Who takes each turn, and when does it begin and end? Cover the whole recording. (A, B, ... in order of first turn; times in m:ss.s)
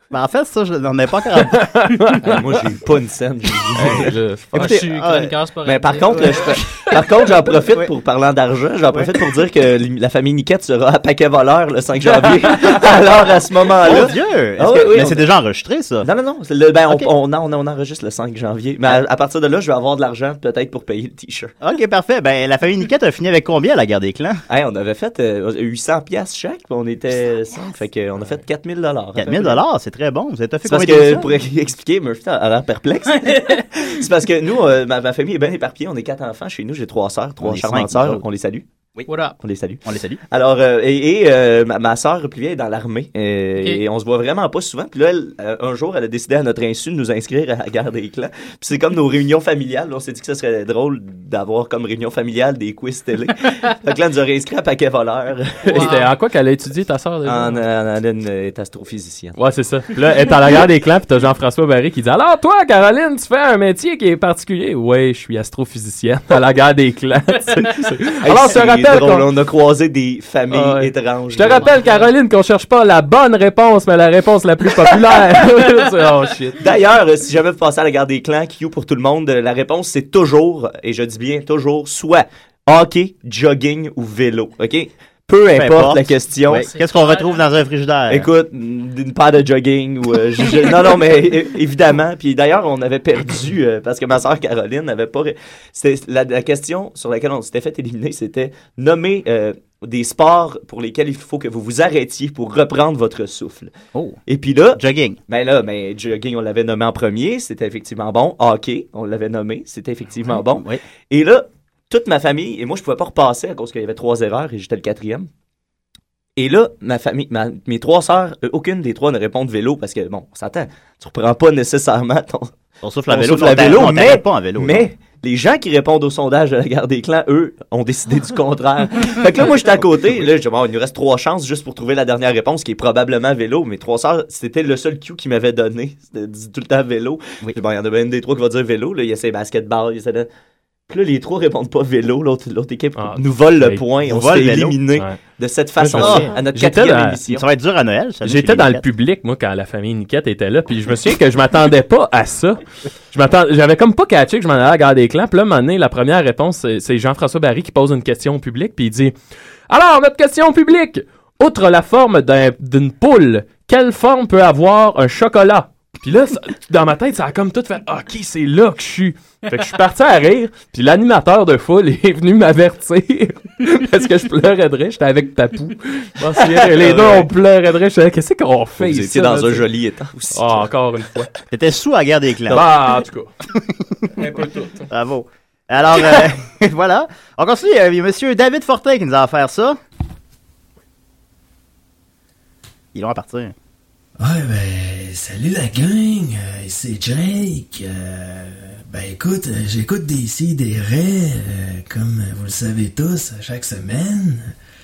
0:00.1-0:01.7 A
0:01.4-0:02.2 B
0:02.2-0:04.2 C
0:03.8-0:04.7 B
0:04.5-0:05.3 A
0:04.6-0:06.4 D
0:05.6-0:15.3 C
0:06.1-0:06.9 A
0:12.1-0:12.8 B
0:13.8-0:16.1 A
0:16.0-0:21.6 C
0:21.6-0:24.4 A
0:24.5-0:29.6 C
0:29.2-0:31.3 A
0:30.7-0:38.7 C
0:33.2-0:33.7 D
0:37.4-0:38.2 A
0:39.1-0:39.4 D
0:39.4-0:56.0 C
0:39.8-0:40.2 A
0:55.7-0:56.1 D
0:55.7-0:57.6 B
0:57.2-0:59.4 C
0:59.4-1:09.3 B
1:08.2-1:11.8 C
1:10.5-1:16.6 B
1:11.6-1:12.1 D
1:16.6-1:26.7 C
1:25.6-1:28.3 A
1:26.6-1:27.4 D
1:28.1-1:43.7 C
1:43.9-1:44.2 A
1:44.3-1:55.3 C
1:44.8-1:45.2 A
1:50.3-1:50.8 A
1:56.4-2:02.5 C
2:02.8-2:04.9 A
2:03.1-2:20.3 C
2:20.9-2:27.4 C
2:23.0-2:23.9 B
2:24.0-2:24.8 A
2:25.8-2:27.2 B
2:26.0-2:26.4 A
2:27.3-2:28.9 A
2:28.2-2:39.2 B
2:39.7-2:59.7 B
2:56.4-2:57.3 C
2:58.8-3:00.7 C
3:00.3-3:01.3 B
3:01.5-3:02.6 A
3:02.5-3:03.3 B
3:03.5-3:04.1 A
3:04.2-3:04.9 B
3:04.9-3:09.8 A
3:12.9-3:13.6 A
3:14.2-3:24.6 E